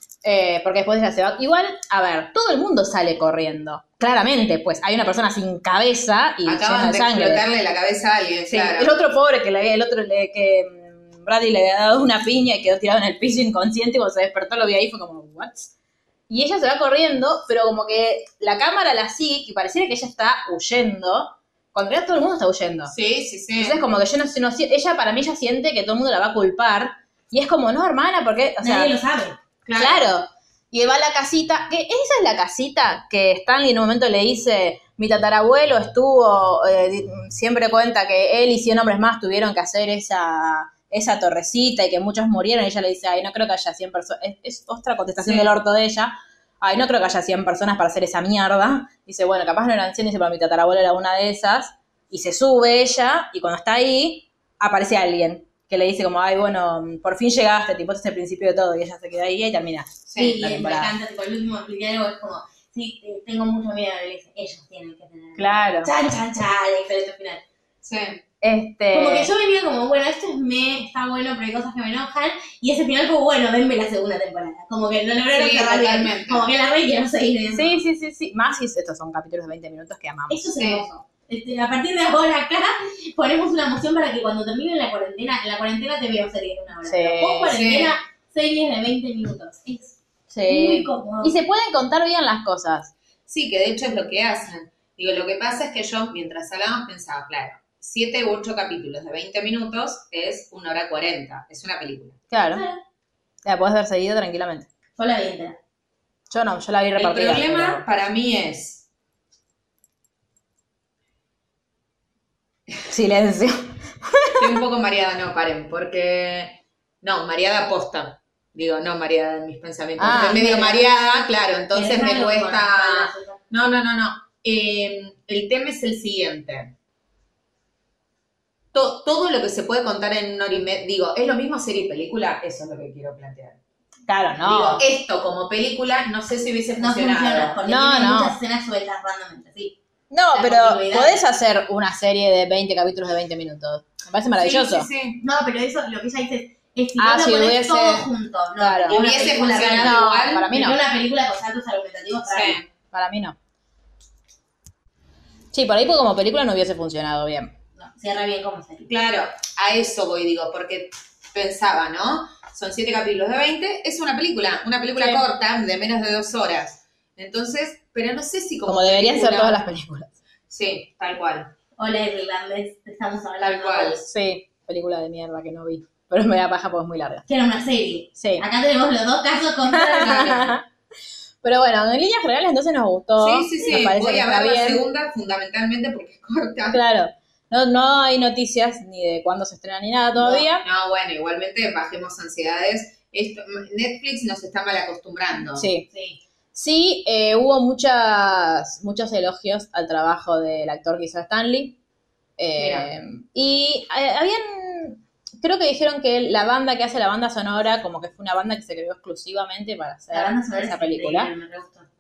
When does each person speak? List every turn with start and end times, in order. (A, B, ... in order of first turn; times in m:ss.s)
0:00.2-0:07.4 A
0:06.5-0:08.9 B
0:08.5-0:15.7 A
0:16.3-0:22.9 A
0:22.9-0:23.8 B
0:23.6-0:29.0 A
0:28.6-0:29.4 C
0:29.7-0:30.0 B
0:29.8-1:01.0 A
0:45.2-0:45.5 B
1:00.1-1:00.4 B
1:00.2-1:07.4 C
1:05.4-1:05.9 A
1:07.8-1:08.2 B
1:08.4-1:09.3 A
1:08.9-1:17.8 C
1:15.3-1:16.5 B
1:17.5-1:20.5 A
1:20.3-1:31.4 C
1:20.6-1:21.0 B
1:26.8-1:27.6 A
1:27.5-1:28.0 B
1:30.3-1:32.9 A
1:33.3-1:42.2 B
1:42.3-1:42.6 A
1:42.4-1:42.8 C
1:43.4-1:44.7 A
1:45.0-1:45.6 C
1:46.3-1:47.8 A
1:47.0-1:48.8 B
1:52.9-1:54.5 A
1:54.4-2:06.7 B
2:00.0-2:00.5 A
2:00.0-2:00.9 C
2:01.7-2:03.4 C
2:08.7-2:13.6 B
2:14.1-2:14.8 A
2:14.4-2:17.6 B
2:16.8-2:19.8 C
2:17.6-2:18.4 A
2:20.1-2:24.9 A
2:20.3-2:21.2 C
2:24.4-2:25.2 B
2:25.2-2:32.6 C
2:27.0-2:30.8 A
2:28.9-2:30.4 B
2:32.2-2:32.6 B
2:32.9-2:33.4 A
2:35.5-2:37.5 A
2:37.8-2:38.9 C
2:38.9-2:49.6 B
2:45.0-2:45.2 A
2:48.7-2:50.1 A
2:50.5-2:51.5 B
2:51.8-2:54.0 C
2:53.4-2:54.1 B
2:54.1-2:57.2 A
2:57.3-3:00.6 C
2:58.2-2:58.4 A
2:59.7-3:00.6 A
3:01.4-3:04.8 A
3:03.2-3:06.8 B
3:06.7-3:10.6 A
3:10.6-3:15.7 B
3:15.6-3:15.9 A
3:15.9-3:16.2 C
3:16.6-3:21.8 A
3:22.4-3:31.3 A
3:22.6-3:22.9 B
3:30.1-3:31.9 C